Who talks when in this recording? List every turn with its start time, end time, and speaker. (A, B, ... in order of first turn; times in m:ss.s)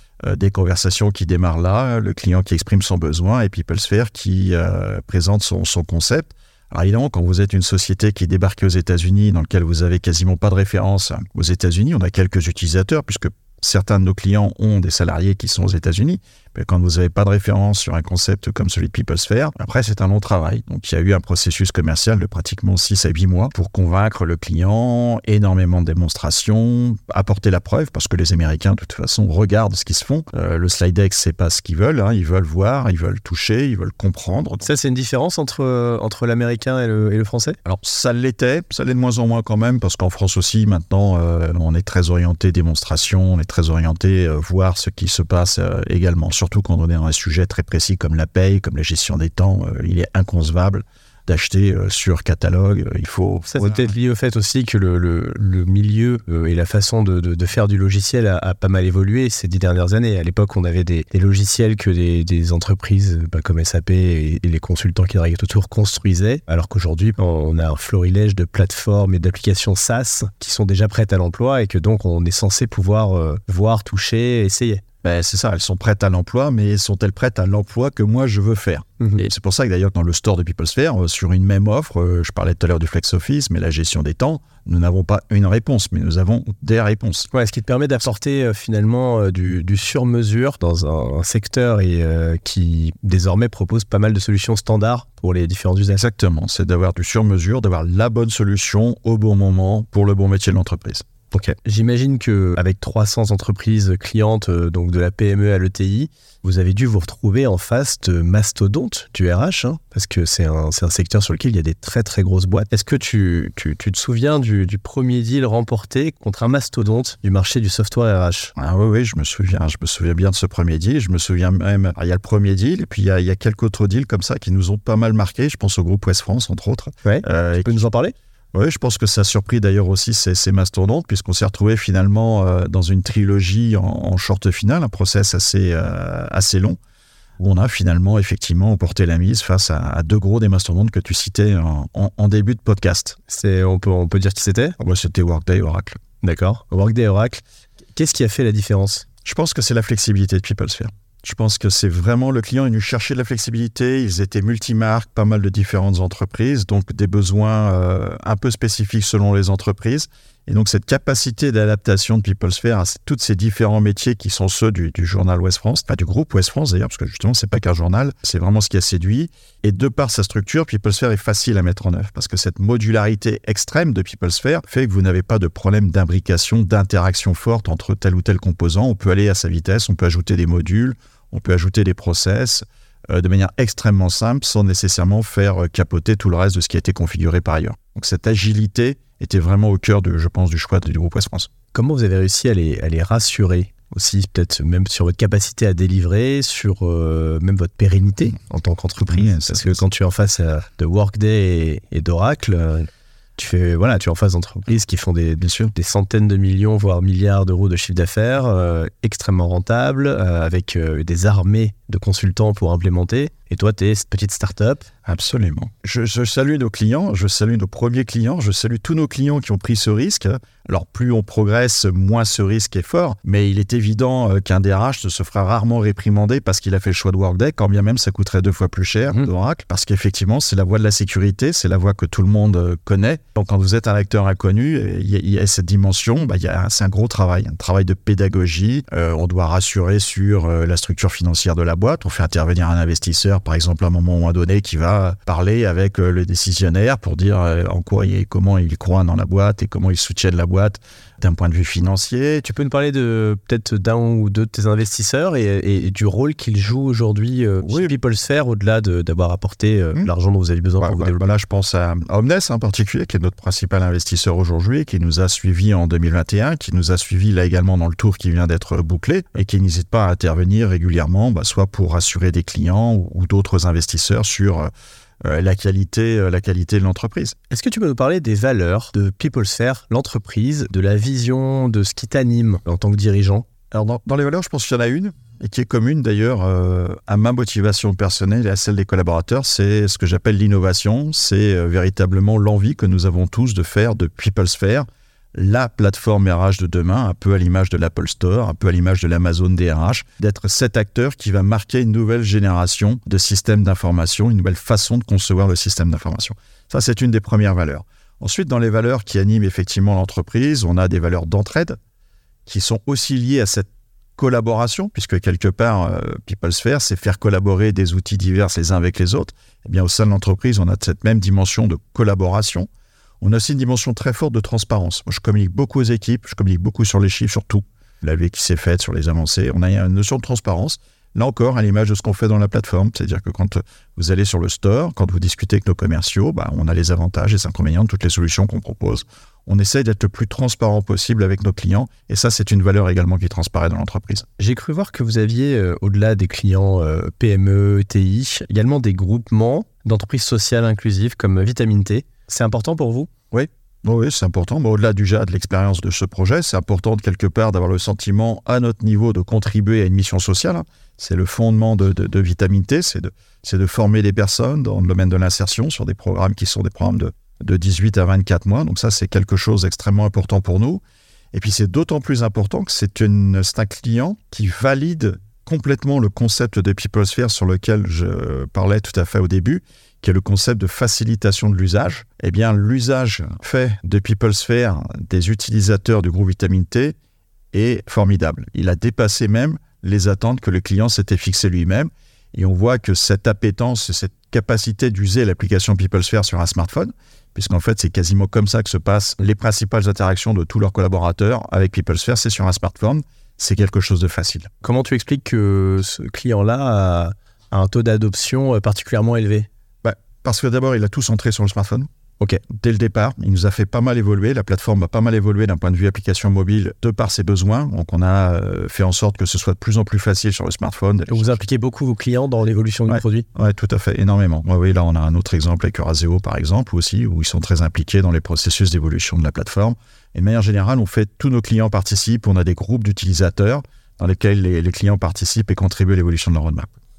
0:00.2-0:34.7 A
0:34.6-0:37.6 B
0:37.6-0:53.9 A
0:53.5-1:14.8 B
1:15.0-1:27.3 A
1:27.3-1:36.0 B
1:35.9-1:41.1 A
1:41.3-1:58.5 B
1:58.6-2:07.9 A
2:07.0-2:08.1 B
2:08.5-2:16.8 A
2:17.4-2:23.2 A
2:23.3-2:24.8 B
2:24.8-2:26.0 A
2:26.2-2:27.4 B
2:27.9-2:29.0 B
2:29.2-3:11.5 A
3:11.7-3:34.9 B
3:19.0-3:19.8 A
3:25.4-3:25.7 A
3:35.0-4:12.4 A
4:12.4-4:21.2 B
4:17.6-4:17.9 A
4:20.8-4:34.7 A
4:35.2-4:37.4 A
4:37.5-4:43.4 B
4:43.7-5:11.8 A
5:12.4-5:22.7 A
5:23.2-5:44.2 A
5:44.4-5:53.1 B
5:53.3-6:10.8 A
6:11.3-6:26.9 A
6:27.5-6:44.5 A
6:44.6-6:49.5 B
6:49.8-6:51.9 A
6:52.5-7:01.4 A
7:01.1-7:03.2 B
7:02.9-7:16.7 A